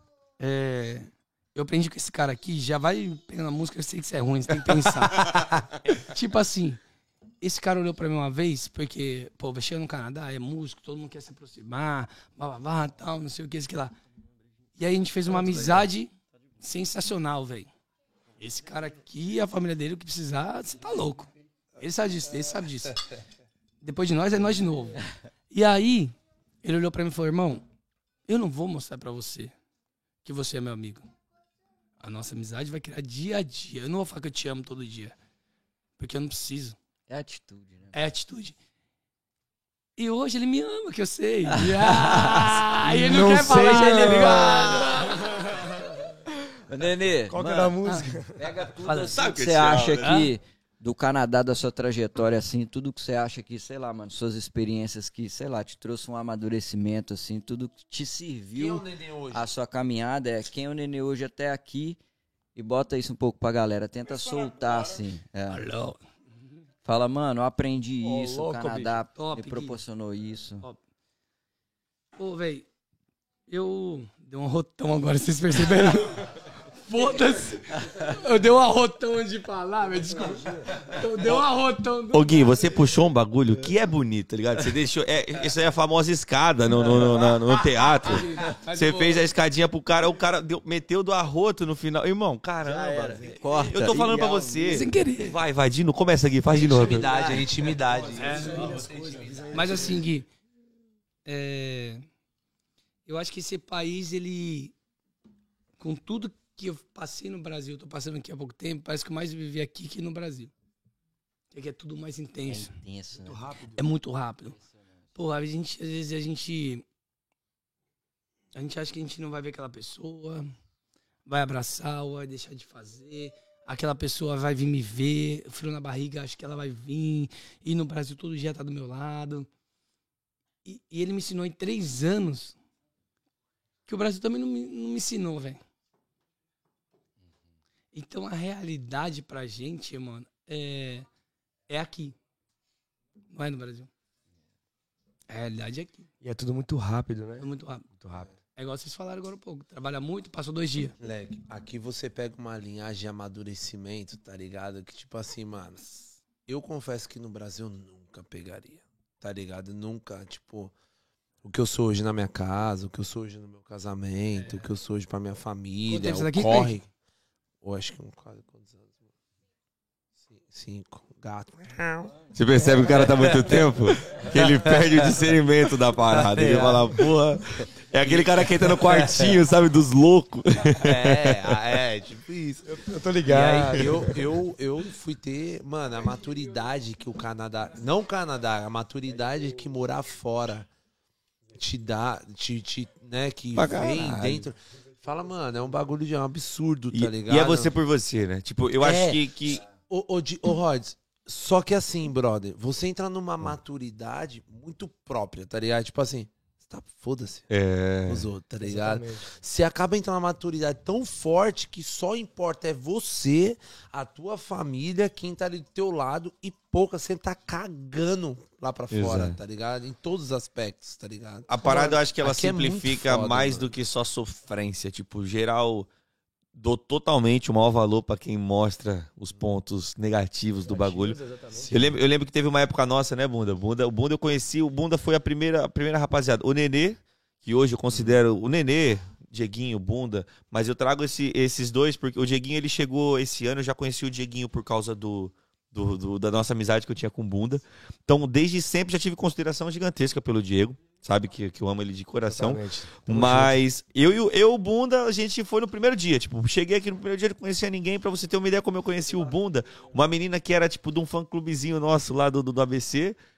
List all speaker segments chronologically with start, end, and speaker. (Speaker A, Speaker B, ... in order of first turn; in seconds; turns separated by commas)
Speaker A: 0.4-6.8, Speaker B: 5.2-5.6, Speaker A: 7.4-13.9, Speaker A: 14.8-17.7, Speaker A: 18.4-23.0, Speaker A: 23.8-27.6, Speaker A: 28.3-29.5, Speaker A: 30.2-31.1, Speaker A: 32.0-35.1, Speaker A: 36.0-36.8, Speaker C: 37.1-38.0, Speaker A: 37.9-38.5, Speaker A: 40.0-45.4, Speaker C: 41.5-42.6, Speaker D: 42.8-44.8, Speaker C: 43.4-45.1, Speaker C: 46.7-47.8, Speaker D: 47.3-48.4, Speaker C: 48.4-62.0, Speaker A: 48.8-49.2, Speaker E: 49.1-50.2, Speaker A: 50.0-50.3, Speaker B: 58.5-59.5, Speaker C: 62.5-65.6, Speaker A: 65.5-66.0, Speaker C: 66.8-70.7, Speaker D: 68.0-69.0, Speaker A: 69.2-69.8, Speaker A: 72.2-72.7, Speaker A: 73.5-82.5, Speaker E: 82.1-97.1, Speaker A: 88.0-89.2, Speaker C: 92.7-94.6, Speaker A: 94.6-95.4, Speaker B: 96.5-100.0, Speaker C: 96.8-97.4, Speaker A: 98.2-98.7, Speaker D: 98.6-99.1, Speaker A: 99.5-100.3, Speaker A: 101.3-102.0, Speaker A: 103.1-104.7, Speaker A: 105.8-110.5, Speaker A: 111.5-112.7, Speaker C: 112.5-113.4, Speaker D: 113.3-113.8, Speaker A: 113.7-114.6, Speaker A: 115.2-116.8, Speaker A: 118.5-120.5, Speaker A: 121.3-129.5, Speaker A: 130.7-132.6, Speaker A: 133.9-135.6, Speaker A: 137.9-141.1, Speaker A: 141.7-142.2, Speaker A: 143.3-143.9, Speaker A: 145.3-146.1, Speaker D: 146.2-148.3, Speaker A: 147.4-147.9, Speaker A: 148.6-150.9, Speaker B: 151.0-160.7, Speaker B: 161.4-166.9, Speaker A: 165.9-166.8, Speaker B: 167.6-169.1, Speaker B: 170.2-172.1, Speaker E: 172.3-181.5, Speaker B: 172.9-175.2, Speaker B: 176.1-177.0, Speaker B: 178.0-179.4, Speaker B: 180.8-190.7, Speaker D: 182.7-184.2, Speaker B: 191.6-197.7, Speaker E: 193.6-194.5, Speaker E: 196.9-199.6, Speaker B: 198.8-207.5, Speaker E: 207.5-208.3, Speaker B: 208.1-223.7, Speaker D: 208.6-209.2, Speaker E: 218.9-219.4, Speaker E: 221.5-225.9, Speaker E: 226.6-231.2, Speaker D: 230.6-231.7, Speaker B: 231.5-232.0, Speaker E: 231.7-263.2, Speaker B: 237.9-238.2, Speaker D: 252.3-253.6